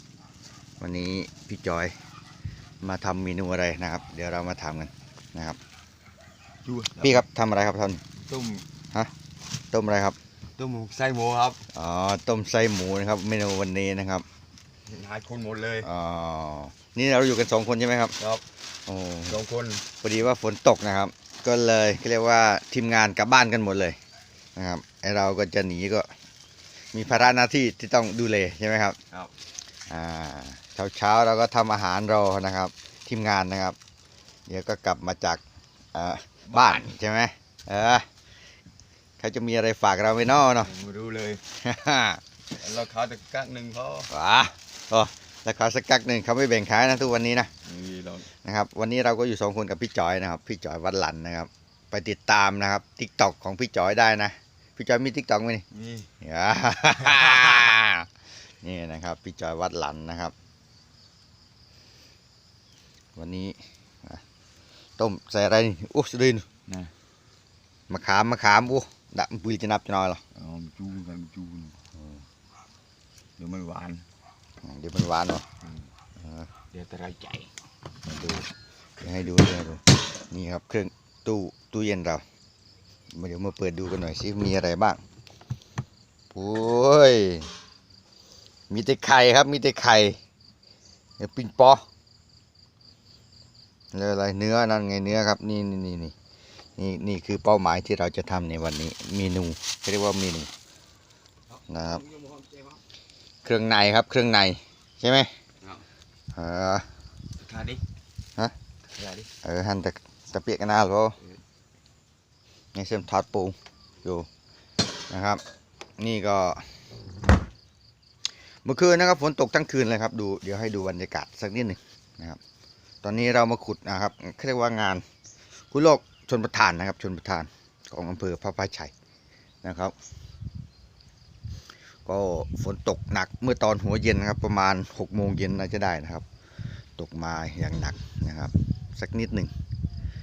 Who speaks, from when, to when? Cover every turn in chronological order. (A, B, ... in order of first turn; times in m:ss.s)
0:00.8-0:01.9 A
0:02.8-0:05.6 A
0:06.6-0:07.2 B
0:07.0-0:08.0 A
0:08.2-0:08.6 B
0:09.7-0:10.2 A
0:10.6-0:11.6 B
0:11.7-0:14.2 A
0:14.9-0:15.9 B
0:15.8-0:18.2 A
0:18.2-0:18.4 B
0:18.9-0:19.4 A
0:19.3-0:19.8 B
0:20.0-0:24.0 A
0:24.6-0:26.1 A
0:26.9-0:29.0 A
0:29.9-0:33.8 A
0:34.5-0:35.4 A
0:35.9-0:38.1 A
0:36.5-0:36.9 B
0:39.2-0:40.7 A
0:40.6-0:41.4 B
0:41.6-0:42.2 A
0:42.6-0:44.1 B
0:44.1-0:47.5 A
0:47.7-0:48.3 B
0:48.3-0:55.6 A
0:55.7-0:56.1 B
0:56.2-0:58.1 A
0:58.6-1:00.3 A
1:03.2-1:04.2 A
1:05.0-1:06.5 A
1:06.7-1:06.9 B
1:07.9-1:10.2 A
1:10.3-1:11.8 B
1:13.4-1:14.0 B
1:14.6-1:15.4 A
1:16.2-1:16.5 A
1:16.7-1:17.5 B
1:18.0-1:18.5 A
1:19.0-1:22.2 A
1:23.1-1:25.0 A
1:26.3-1:27.5 A
1:28.7-1:30.2 A
1:31.2-1:31.8 A
1:33.9-1:36.1 A
1:36.8-1:40.5 A
1:41.7-1:42.1 A
1:42.0-1:42.8 B
1:43.4-1:45.3 A
1:46.3-1:46.8 A
1:47.4-1:47.8 B
1:49.0-1:49.3 B
1:49.4-1:51.2 A
1:52.7-1:54.3 A
1:55.1-1:55.4 A
1:56.0-1:56.7 A
1:58.6-2:02.4 A
2:03.0-2:05.0 A
2:05.7-2:08.9 A
2:09.6-2:09.9 A
2:12.0-2:16.2 A
2:17.0-2:19.5 A